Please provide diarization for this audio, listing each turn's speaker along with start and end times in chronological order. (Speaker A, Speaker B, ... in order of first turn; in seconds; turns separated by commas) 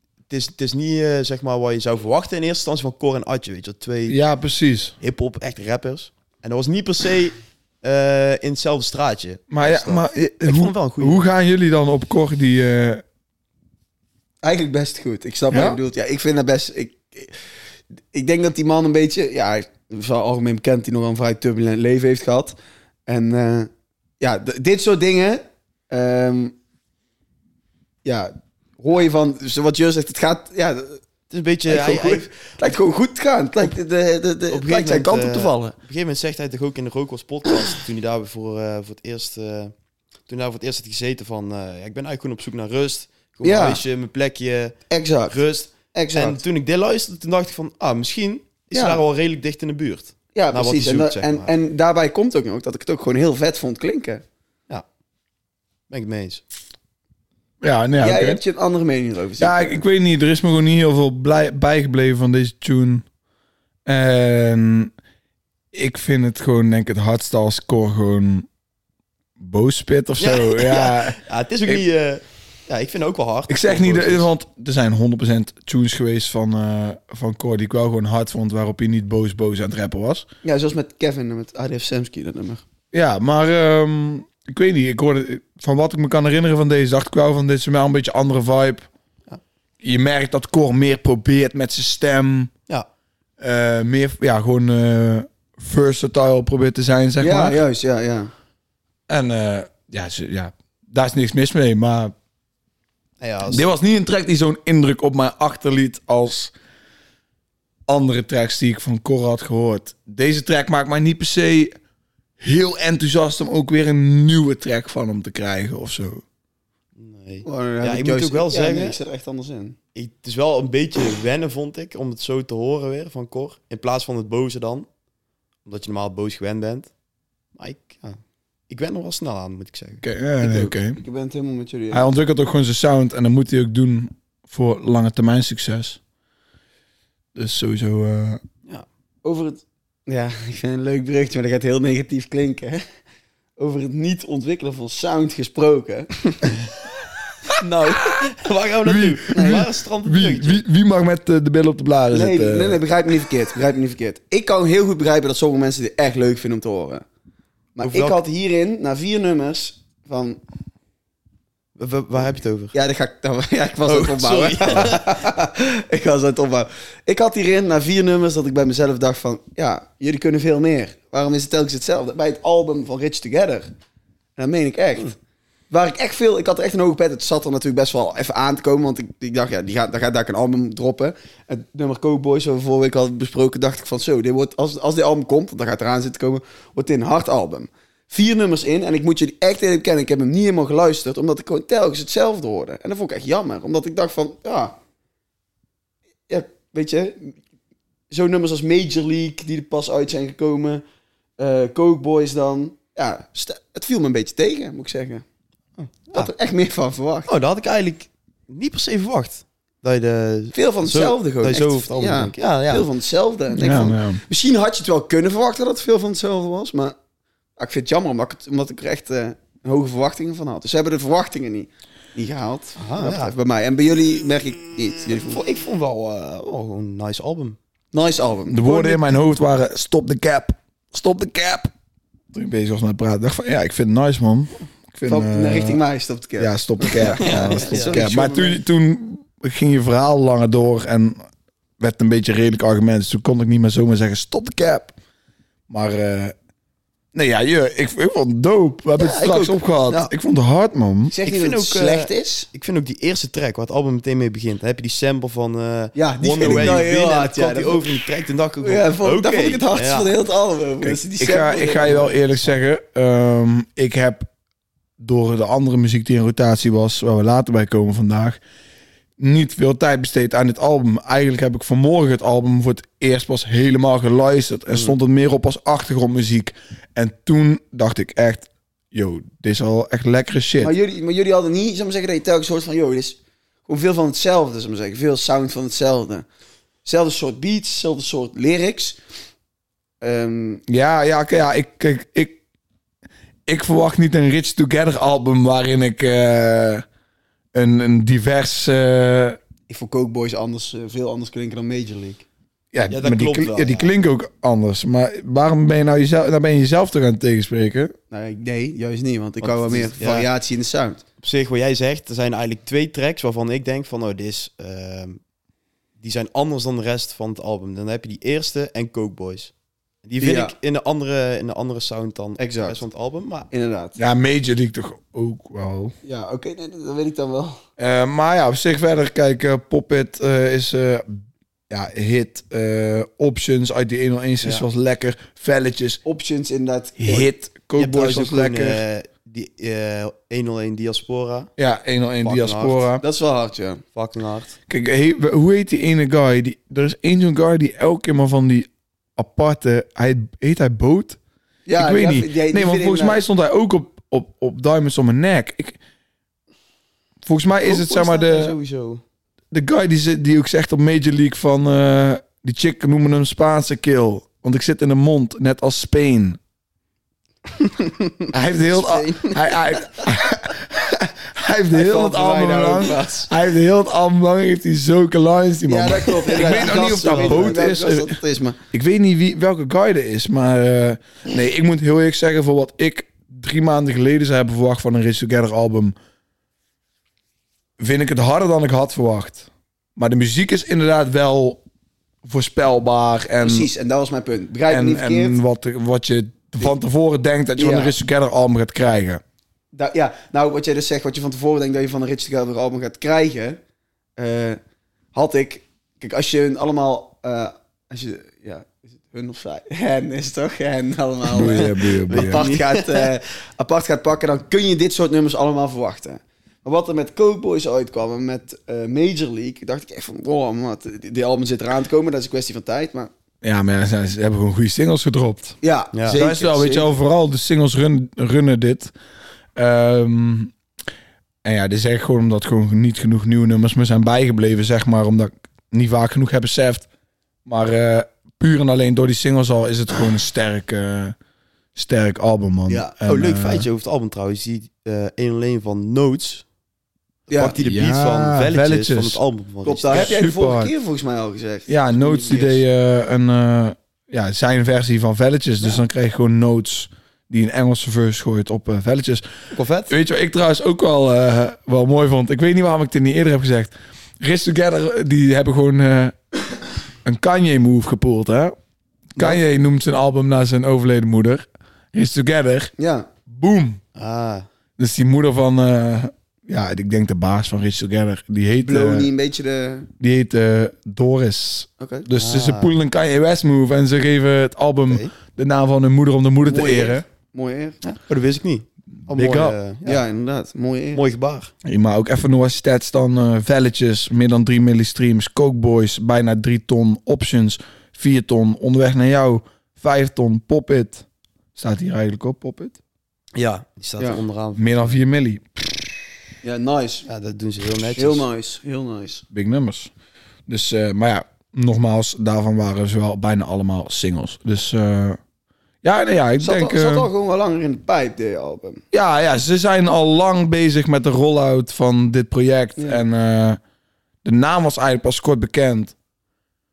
Speaker A: 0.3-4.2, Speaker B: 4.1-4.9, Speaker A: 5.0-11.2, Speaker B: 9.5-13.0, Speaker C: 14.4-17.3, Speaker B: 15.5-15.8, Speaker C: 18.1-22.6, Speaker C: 23.1-26.5, Speaker C: 28.0-31.0, Speaker A: 31.3-32.8, Speaker C: 31.7-35.7, Speaker A: 34.5-39.7, Speaker A: 40.3-44.8, Speaker C: 43.4-43.8, Speaker C: 44.9-46.4, Speaker A: 45.3-51.5, Speaker C: 48.7-49.0, Speaker C: 50.3-54.2, Speaker A: 55.9-56.4, Speaker B: 57.6-58.4, Speaker C: 58.0-59.8, Speaker B: 59.4-63.0, Speaker B: 63.9-64.9, Speaker B: 65.7-68.5, Speaker B: 69.4-71.8, Speaker A: 70.2-74.3, Speaker B: 73.5-80.2, Speaker C: 80.4-82.6, Speaker B: 82.9-88.9, Speaker B: 89.8-92.5, Speaker B: 93.4-97.6, Speaker C: 97.2-98.3, Speaker B: 99.1-102.1, Speaker A: 103.2-103.7, Speaker B: 103.5-106.5, Speaker B: 107.9-111.7, Speaker B: 112.4-116.2, Speaker A: 117.0-119.0, Speaker C: 117.4-119.8, Speaker A: 119.9-124.9, Speaker A: 125.6-126.9, Speaker A: 127.6-128.2, Speaker A: 128.7-130.0, Speaker B: 130.0-131.0, Speaker C: 130.4-132.1, Speaker B: 131.9-136.0, Speaker B: 137.3-138.4, Speaker C: 139.2-142.8, Speaker C: 143.6-146.7, Speaker A: 147.6-150.6, Speaker B: 148.8-152.8, Speaker C: 149.3-149.6, Speaker C: 152.1-157.0, Speaker C: 157.8-160.4, Speaker A: 157.8-158.2, Speaker A: 161.8-162.7, Speaker C: 162.7-173.7, Speaker A: 163.8-165.2, Speaker C: 174.4-175.2, Speaker C: 175.7-194.8, Speaker C: 196.3-197.3, Speaker C: 198.1-200.8, Speaker C: 201.4-205.2, Speaker A: 205.8-206.3, Speaker C: 206.1-207.3, Speaker A: 207.3-212.9, Speaker C: 210.5-216.9, Speaker B: 213.5-214.2, Speaker C: 217.6-225.5, Speaker A: 222.8-223.3, Speaker A: 225.3-227.6, Speaker C: 227.9-229.1, Speaker B: 228.5-231.7, Speaker B: 232.3-235.8, Speaker C: 235.1-238.6, Speaker B: 236.4-241.2, Speaker A: 237.1-238.1, Speaker B: 241.8-244.9, Speaker B: 245.7-246.3, Speaker B: 247.1-251.1, Speaker C: 249.0-250.1, Speaker C: 251.1-252.5, Speaker A: 251.2-260.1, Speaker C: 255.9-258.1, Speaker B: 256.4-256.8, Speaker C: 258.6-262.2, Speaker B: 260.8-264.3, Speaker B: 265.0-268.4, Speaker B: 269.2-280.7, Speaker C: 280.6-286.2, Speaker C: 286.8-289.0, Speaker C: 290.0-290.6, Speaker B: 290.7-292.4, Speaker B: 293.5-296.8, Speaker B: 297.5-299.4, Speaker C: 299.7-302.2, Speaker B: 302.7-307.9, Speaker A: 302.9-303.9, Speaker C: 308.1-311.0, Speaker A: 309.4-310.3, Speaker A: 311.2-315.2, Speaker A: 316.0-319.5, Speaker A: 320.0-323.5, Speaker C: 320.2-320.5, Speaker C: 322.4-322.8, Speaker C: 323.5-323.9, Speaker B: 324.0-325.9, Speaker C: 326.0-327.6, Speaker B: 327.8-336.0, Speaker C: 336.0-337.3, Speaker B: 337.0-338.8, Speaker A: 337.8-341.5, Speaker B: 341.6-343.0, Speaker A: 342.2-342.9, Speaker C: 343.0-343.8, Speaker A: 343.9-344.5, Speaker B: 344.7-351.2, Speaker C: 351.6-353.2, Speaker B: 351.8-355.8, Speaker B: 357.2-358.5, Speaker A: 357.6-359.0, Speaker B: 359.5-366.4, Speaker B: 368.3-378.2, Speaker A: 368.8-369.3, Speaker C: 371.7-373.3, Speaker C: 375.7-378.6, Speaker A: 376.6-377.6, Speaker B: 378.7-385.9, Speaker B: 387.8-391.6, Speaker B: 392.2-393.7, Speaker C: 393.4-395.4, Speaker B: 394.7-399.2, Speaker C: 397.6-397.9, Speaker C: 399.7-403.6, Speaker C: 404.2-404.6, Speaker C: 405.1-423.1, Speaker B: 411.2-412.5, Speaker A: 411.5-413.1, Speaker B: 423.4-425.6, Speaker C: 425.6-426.9, Speaker A: 425.9-426.2, Speaker B: 426.1-428.9, Speaker B: 429.6-430.5, Speaker B: 431.4-436.9, Speaker B: 437.4-441.1, Speaker B: 441.7-443.7, Speaker A: 443.0-446.4, Speaker C: 447.3-447.6, Speaker A: 447.4-450.1, Speaker B: 447.6-449.2, Speaker C: 449.6-452.6, Speaker B: 449.9-450.7, Speaker B: 451.7-459.2, Speaker A: 459.5-459.9, Speaker B: 459.9-466.2, Speaker B: 467.0-468.5, Speaker B: 469.1-472.7, Speaker C: 472.8-473.1, Speaker B: 473.3-473.8, Speaker A: 473.9-474.4, Speaker B: 474.8-479.1, Speaker C: 478.6-479.9, Speaker B: 480.0-487.0, Speaker C: 481.8-482.1, Speaker A: 482.1-482.7, Speaker C: 486.4-487.8, Speaker A: 487.9-490.0, Speaker B: 489.1-489.6, Speaker C: 489.8-491.0, Speaker A: 490.9-491.5, Speaker B: 491.6-502.8, Speaker A: 503.3-505.0, Speaker B: 504.6-505.8, Speaker C: 506.4-507.1, Speaker A: 507.1-508.2, Speaker C: 507.9-509.2, Speaker B: 509.3-509.9, Speaker B: 510.5-515.2, Speaker B: 515.8-517.1, Speaker C: 516.4-518.8, Speaker B: 518.9-523.6, Speaker B: 524.2-525.9